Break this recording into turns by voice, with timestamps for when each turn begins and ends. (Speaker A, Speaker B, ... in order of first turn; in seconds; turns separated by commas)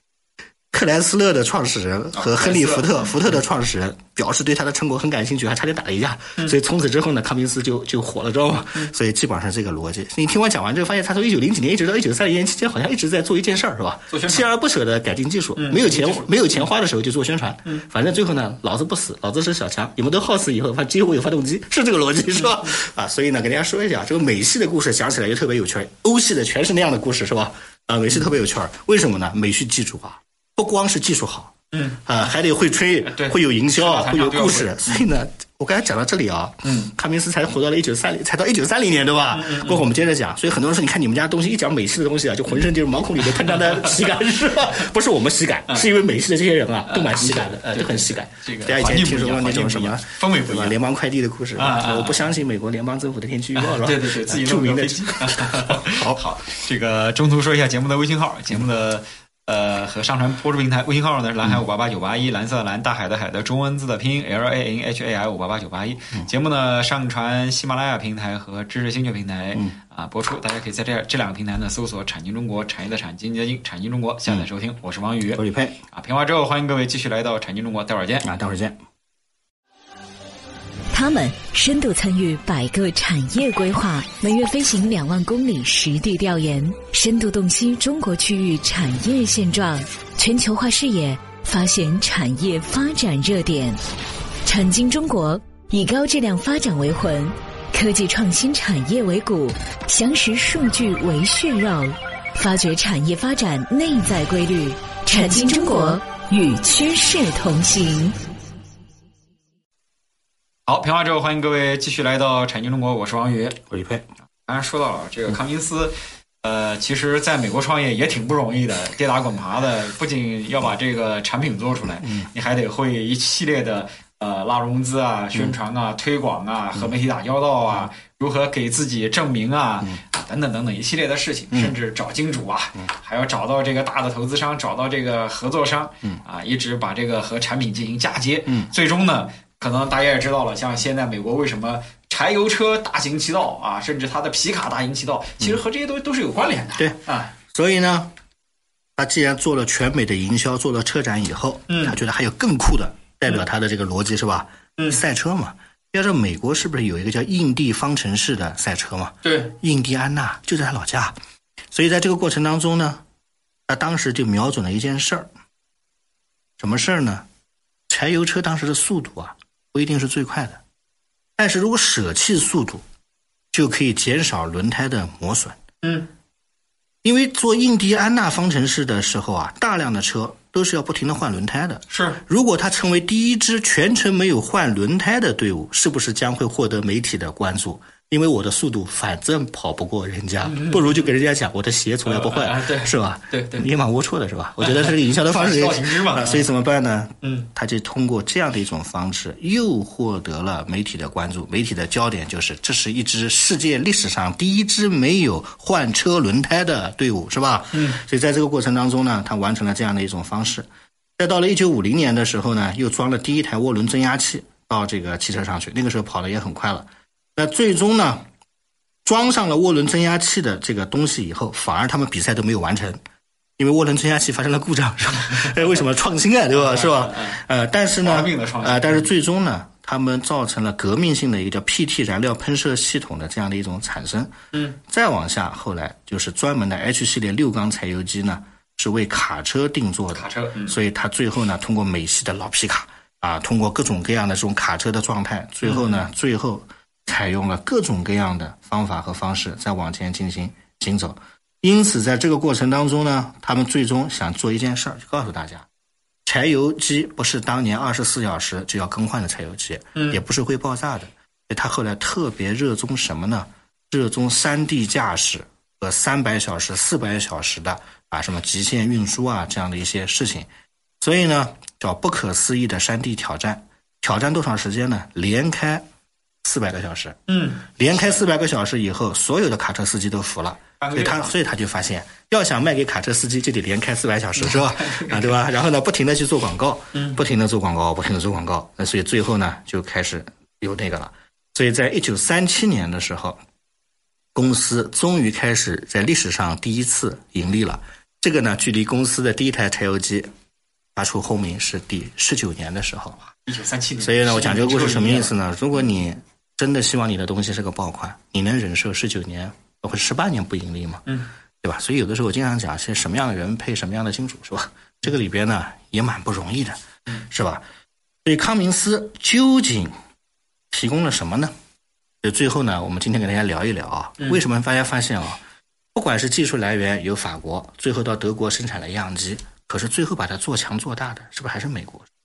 Speaker A: 0.7-31.5, Speaker B: 2.1-3.3, Speaker B: 14.1-14.5, Speaker B: 15.6-16.7, Speaker B: 22.4-22.7, Speaker B: 31.7-32.1, Speaker A: 32.0-56.2, Speaker B: 33.1-35.1, Speaker B: 36.6-36.9, Speaker B: 39.3-39.9, Speaker B: 43.7-44.0, Speaker B: 46.9-50.8, Speaker B: 51.5-52.3, Speaker B: 53.5-78.3, Speaker A: 75.3-75.8, Speaker A: 78.2-78.8, Speaker C: 80.9-93.8, Speaker C: 94.5-108.2, Speaker B: 110.7-113.6, Speaker A: 113.7-114.1, Speaker B: 114.5-147.3, Speaker A: 122.0-122.3, Speaker A: 131.5-131.8, Speaker A: 138.5-138.7, Speaker A: 147.5-148.1, Speaker A: 149.0-161.2, Speaker B: 151.7-152.0, Speaker B: 159.2-159.6, Speaker A: 161.7-163.0, Speaker A: 163.7-165.3, Speaker A: 166.6-167.2, Speaker A: 167.9-170.6, Speaker A: 171.4-172.8, Speaker A: 173.5-175.6, Speaker B: 175.8-176.1, Speaker A: 177.0-218.2, Speaker B: 181.9-182.2, Speaker B: 190.4-191.1, Speaker B: 192.1-193.7, Speaker B: 194.6-196.5, Speaker B: 197.2-197.5, Speaker B: 207.7-208.0, Speaker A: 219.1-223.0, Speaker A: 223.6-234.3, Speaker B: 226.5-227.4, Speaker B: 228.0-229.1, Speaker B: 234.5-234.8, Speaker A: 234.9-255.7, Speaker B: 240.1-240.8, Speaker B: 245.6-246.0, Speaker A: 256.3-270.5, Speaker B: 259.9-260.2, Speaker A: 271.0-275.9, Speaker A: 276.4-277.2, Speaker B: 277.3-277.7, Speaker A: 277.8-293.4, Speaker B: 280.8-281.3, Speaker B: 284.4-285.2, Speaker B: 286.9-287.2, Speaker A: 294.4-300.3, Speaker A: 301.0-303.2, Speaker B: 303.2-305.4, Speaker A: 304.0-311.0, Speaker A: 311.6-317.6, Speaker A: 318.2-319.9, Speaker A: 320.7-321.5, Speaker A: 322.2-325.4, Speaker A: 325.9-332.1